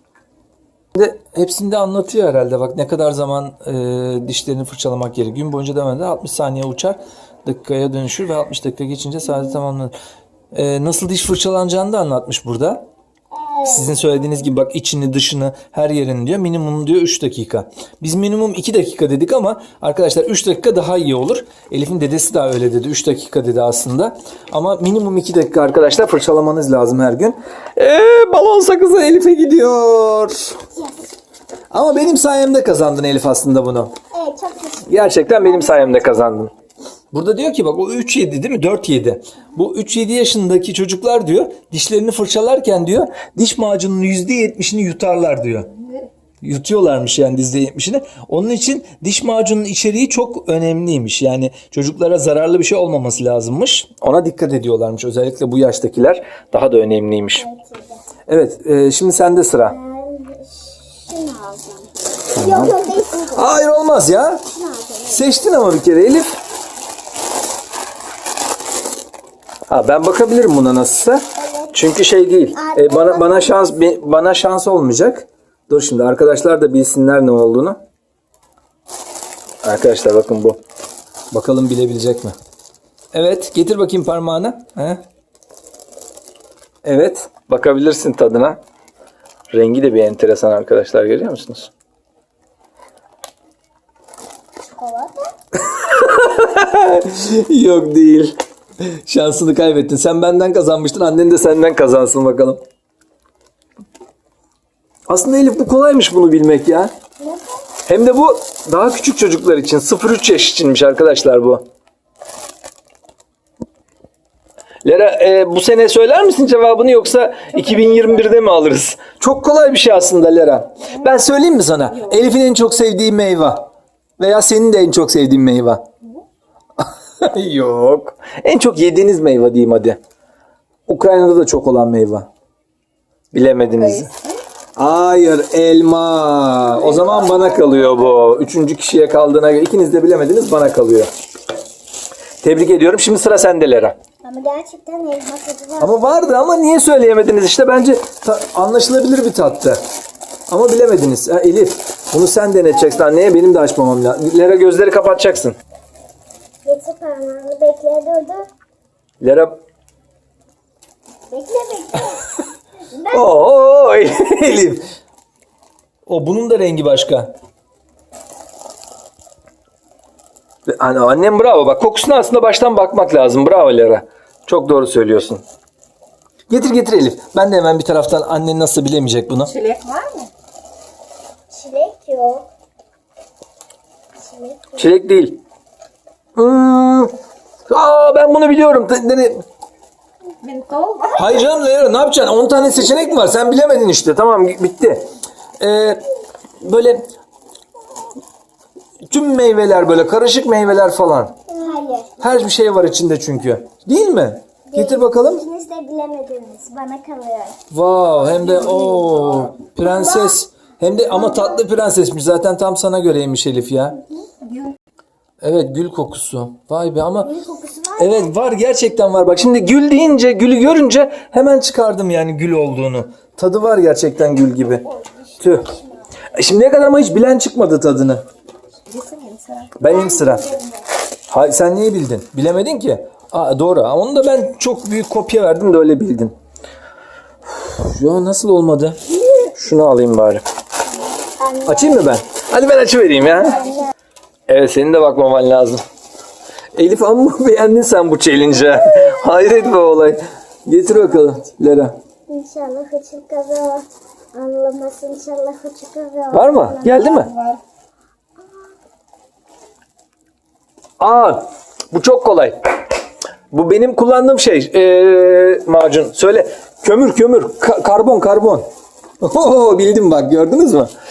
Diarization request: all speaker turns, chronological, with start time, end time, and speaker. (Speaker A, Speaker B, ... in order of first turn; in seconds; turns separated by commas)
Speaker A: 0.9-9.9, Speaker A: 10.5-12.8, Speaker B: 13.3-14.0, Speaker A: 13.6-30.6, Speaker B: 30.7-31.1, Speaker A: 31.7-33.9, Speaker B: 34.1-36.3, Speaker A: 34.9-36.5, Speaker A: 37.1-45.7, Speaker C: 45.8-46.1, Speaker A: 46.4-57.4, Speaker B: 57.3-58.0, Speaker A: 58.3-59.8, Speaker B: 59.6-63.6, Speaker A: 62.4-62.7, Speaker A: 63.3-64.4, Speaker B: 64.5-65.4, Speaker A: 65.0-66.4, Speaker A: 69.7-77.8, Speaker B: 71.4-71.9, Speaker B: 72.5-73.8, Speaker A: 79.6-80.6, Speaker A: 81.3-82.3, Speaker A: 83.1-85.0, Speaker A: 86.8-88.6, Speaker A: 89.5-91.7, Speaker B: 94.7-95.3, Speaker A: 95.5-102.6, Speaker A: 105.1-106.9, Speaker B: 107.2-107.6, Speaker A: 107.8-111.6, Speaker A: 114.8-123.7, Speaker A: 124.2-125.8, Speaker A: 126.8-130.0, Speaker A: 130.9-132.3, Speaker A: 133.3-134.1, Speaker C: 133.8-134.4, Speaker A: 134.8-141.1, Speaker C: 136.9-137.3, Speaker A: 142.4-143.9, Speaker B: 144.2-146.2, Speaker A: 145.8-149.8, Speaker A: 150.5-155.6, Speaker B: 156.6-158.5, Speaker A: 159.2-159.6, Speaker B: 161.3-162.3, Speaker B: 162.9-163.4, Speaker A: 163.1-164.8, Speaker A: 166.1-167.3, Speaker A: 170.7-175.4, Speaker A: 176.5-179.5, Speaker C: 179.3-180.3, Speaker B: 181.5-182.5, Speaker B: 184.2-184.8, Speaker A: 184.8-185.4, Speaker A: 186.3-187.1, Speaker A: 187.7-189.4, Speaker C: 190.4-191.4, Speaker A: 191.2-195.1, Speaker A: 195.6-196.0, Speaker A: 196.6-197.1, Speaker A: 199.1-201.3, Speaker B: 201.5-202.2, Speaker A: 202.2-205.4, Speaker B: 204.7-207.6, Speaker A: 207.7-214.0, Speaker C: 208.3-209.5, Speaker B: 209.8-210.4, Speaker C: 214.4-214.8, Speaker A: 215.4-217.3, Speaker B: 217.2-218.3, Speaker A: 218.0-224.8, Speaker B: 224.9-225.9, Speaker A: 225.4-225.7, Speaker A: 226.3-228.2, Speaker C: 228.8-229.8, Speaker A: 229.8-230.4, Speaker B: 229.8-230.8, Speaker A: 231.3-236.3, Speaker A: 237.5-240.4, Speaker B: 241.4-242.1, Speaker A: 241.6-243.6, Speaker B: 243.4-243.9, Speaker A: 244.5-245.8, Speaker A: 246.7-251.9, Speaker B: 248.7-249.4, Speaker B: 252.3-257.0, Speaker A: 256.3-257.3, Speaker C: 256.8-257.6, Speaker A: 261.0-262.6, Speaker A: 263.5-268.7, Speaker A: 269.2-270.9